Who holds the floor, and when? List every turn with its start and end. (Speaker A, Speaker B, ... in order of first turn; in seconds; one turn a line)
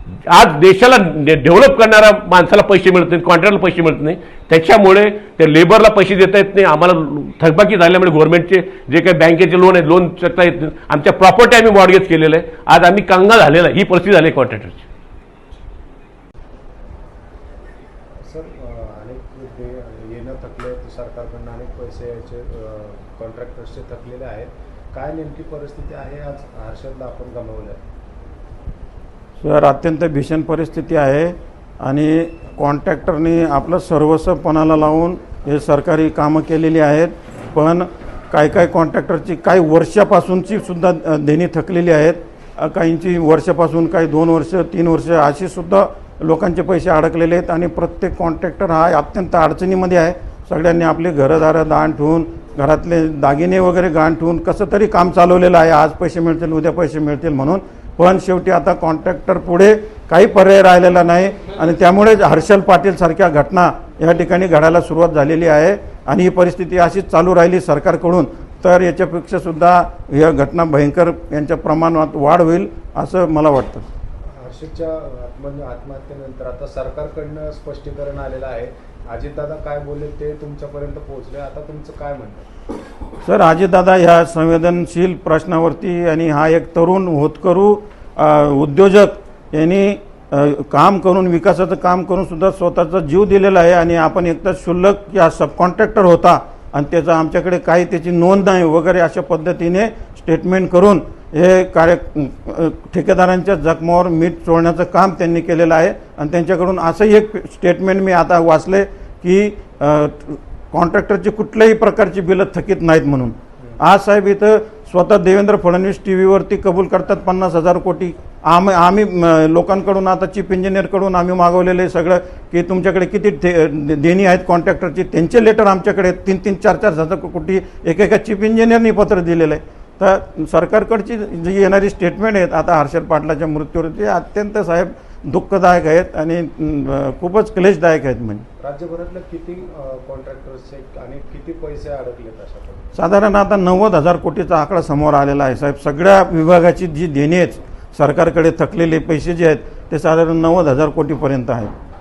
Speaker A: 0.3-14.9
Speaker B: 18.2-27.9
Speaker C: 29.4-73.8
Speaker B: 74.3-82.5
Speaker C: 83.2-138.5
Speaker B: 138.6-142.9
Speaker C: 142.9-151.7